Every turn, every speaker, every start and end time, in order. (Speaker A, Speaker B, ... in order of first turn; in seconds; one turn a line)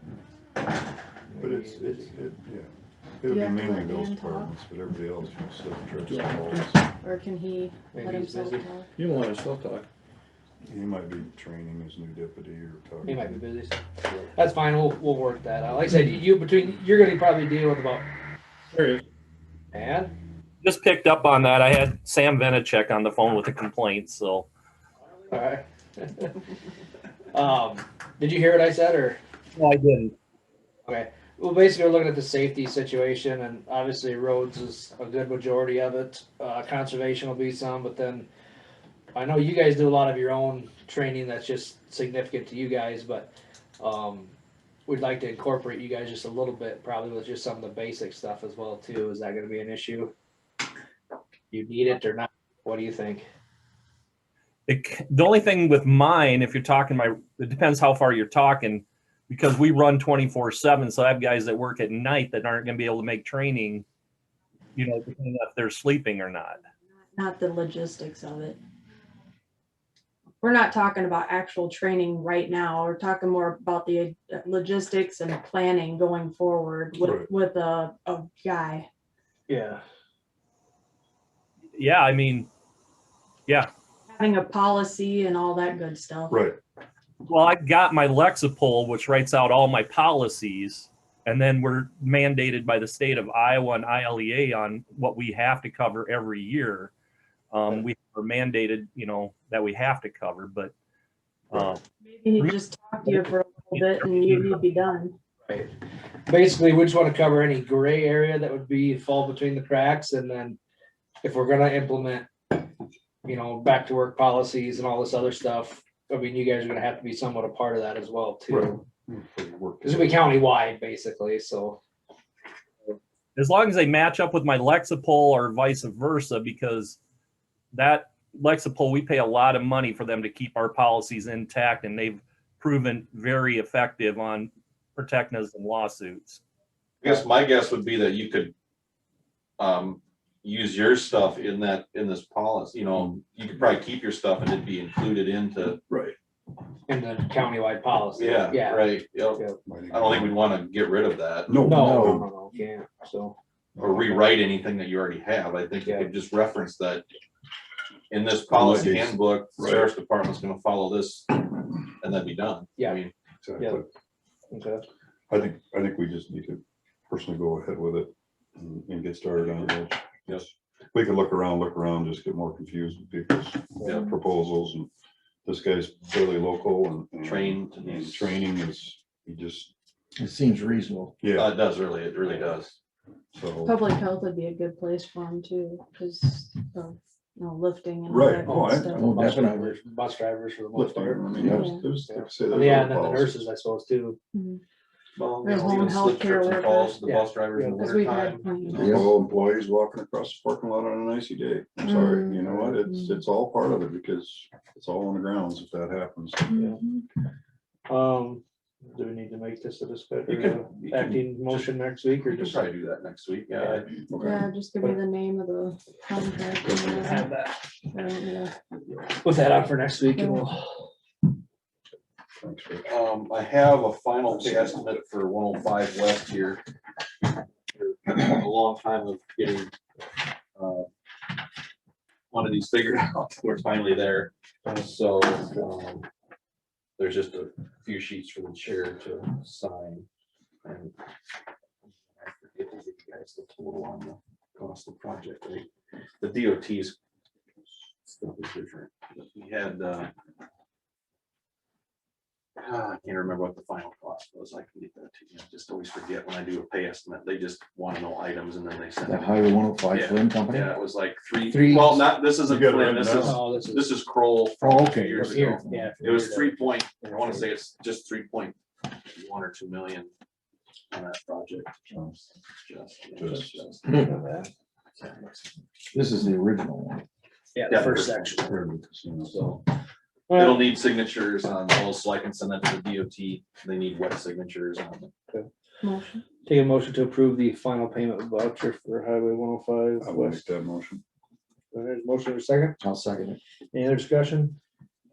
Speaker A: 1.3-2.1
Speaker B: 1.4-6.8
Speaker C: 3.3-4.5
Speaker D: 6.1-6.7
Speaker C: 7.0-8.9
Speaker A: 7.9-8.7
Speaker D: 9.0-9.9
Speaker B: 10.7-13.3
Speaker A: 13.1-18.1
Speaker A: 19.7-20.1
Speaker E: 20.6-24.5
Speaker A: 25.3-26.4
Speaker A: 27.3-29.2
Speaker E: 29.6-30.1
Speaker A: 30.9-38.3
Speaker A: 39.1-44.3
Speaker A: 44.9-50.1
Speaker A: 51.5-53.2
Speaker E: 54.7-63.8
Speaker E: 64.8-66.6
Speaker C: 67.1-68.6
Speaker C: 70.4-78.9
Speaker B: 77.0-77.3
Speaker A: 79.5-79.8
Speaker E: 81.7-82.5
Speaker C: 84.1-86.4
Speaker B: 86.3-86.6
Speaker E: 87.3-96.9
Speaker E: 97.5-100.7
Speaker E: 101.5-101.8
Speaker C: 102.0-105.2
Speaker E: 102.3-104.6
Speaker A: 106.3-110.6
Speaker A: 111.2-112.5
Speaker A: 113.2-118.8
Speaker B: 118.5-120.3
Speaker A: 119.8-121.8
Speaker E: 123.3-127.0
Speaker E: 127.7-136.4
Speaker F: 137.0-138.5
Speaker F: 139.6-145.8
Speaker B: 145.9-146.2
Speaker A: 146.9-149.6
Speaker F: 148.1-151.6
Speaker B: 149.6-150.4
Speaker B: 151.5-152.3
Speaker A: 151.6-153.4
Speaker D: 151.6-152.2
Speaker F: 153.8-157.1
Speaker F: 158.1-163.1
Speaker B: 158.5-159.9
Speaker B: 163.4-163.9
Speaker A: 163.6-163.8
Speaker A: 164.5-164.8
Speaker B: 165.3-174.9
Speaker F: 169.3-170.4
Speaker B: 175.4-179.7
Speaker F: 177.2-178.5
Speaker D: 180.2-181.2
Speaker B: 181.2-181.5
Speaker F: 181.3-182.8
Speaker B: 183.3-183.8
Speaker C: 183.6-189.1
Speaker B: 188.1-189.5
Speaker A: 188.4-191.4
Speaker D: 188.9-189.8
Speaker B: 190.7-193.5
Speaker D: 191.3-191.8
Speaker C: 191.5-191.8
Speaker A: 191.9-194.2
Speaker C: 194.3-194.6
Speaker F: 195.2-198.9
Speaker C: 195.4-197.0
Speaker A: 197.1-198.4
Speaker C: 197.8-198.8
Speaker B: 198.7-206.7
Speaker D: 198.8-199.1
Speaker C: 201.8-203.1
Speaker A: 202.5-202.7
Speaker C: 206.5-207.0
Speaker A: 207.9-212.6
Speaker F: 210.2-211.7
Speaker F: 212.2-213.9
Speaker A: 213.6-213.9
Speaker B: 214.1-214.4
Speaker C: 214.2-217.3
Speaker A: 216.7-217.6
Speaker C: 217.9-218.5
Speaker A: 219.2-220.6
Speaker C: 220.2-220.4
Speaker B: 222.4-222.8
Speaker F: 222.8-226.6
Speaker F: 227.2-229.7
Speaker F: 230.5-230.9
Speaker F: 232.3-236.1
Speaker F: 237.0-240.1
Speaker F: 240.6-240.9
Speaker F: 242.1-247.0
Speaker F: 248.0-250.1
Speaker F: 252.6-270.1
Speaker D: 259.1-260.7
Speaker D: 261.5-262.1
Speaker B: 262.5-263.5
Speaker A: 263.2-263.9
Speaker D: 264.6-266.1
Speaker A: 264.9-267.4
Speaker F: 270.9-271.8
Speaker B: 271.9-272.1
Speaker F: 272.5-274.4
Speaker B: 273.2-273.5
Speaker A: 273.9-274.5
Speaker F: 275.0-275.6
Speaker D: 275.9-277.1
Speaker A: 277.5-278.4
Speaker F: 277.6-278.6
Speaker B: 278.0-279.4
Speaker F: 279.2-279.6
Speaker A: 280.3-280.6
Speaker F: 280.3-285.1
Speaker C: 285.8-286.2
Speaker A: 286.4-290.4
Speaker B: 290.0-291.0
Speaker A: 291.7-292.8
Speaker D: 292.8-293.4
Speaker A: 293.7-294.6